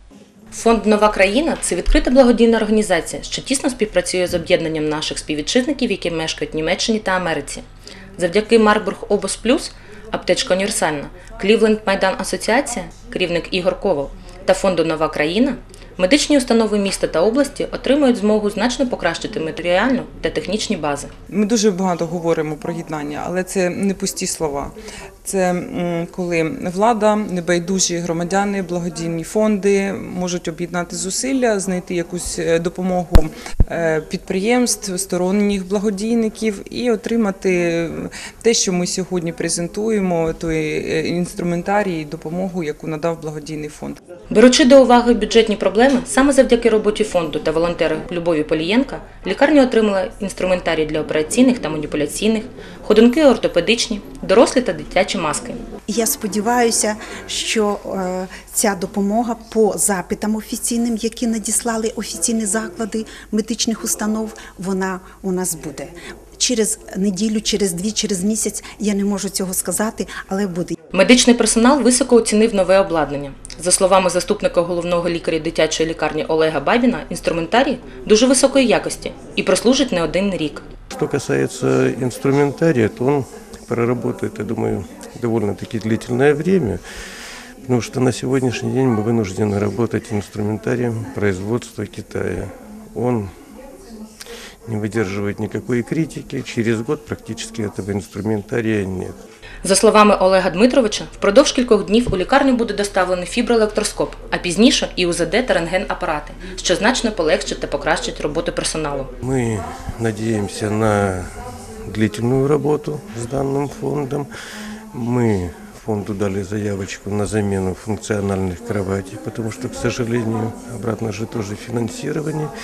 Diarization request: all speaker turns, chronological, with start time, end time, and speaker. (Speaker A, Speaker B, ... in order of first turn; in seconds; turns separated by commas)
Speaker A: 0.5-7.6, Speaker A: 8.2-21.1, Speaker B: 21.3-44.0, Speaker A: 44.3-55.6, Speaker C: 55.9-70.7, Speaker A: 70.9-80.7, Speaker D: 80.9-86.8, Speaker D: 87.6-93.3, Speaker D: 94.7-99.2, Speaker A: 99.6-109.1, Speaker D: 109.2-111.3, Speaker D: 111.9-114.3, Speaker D: 114.9-122.5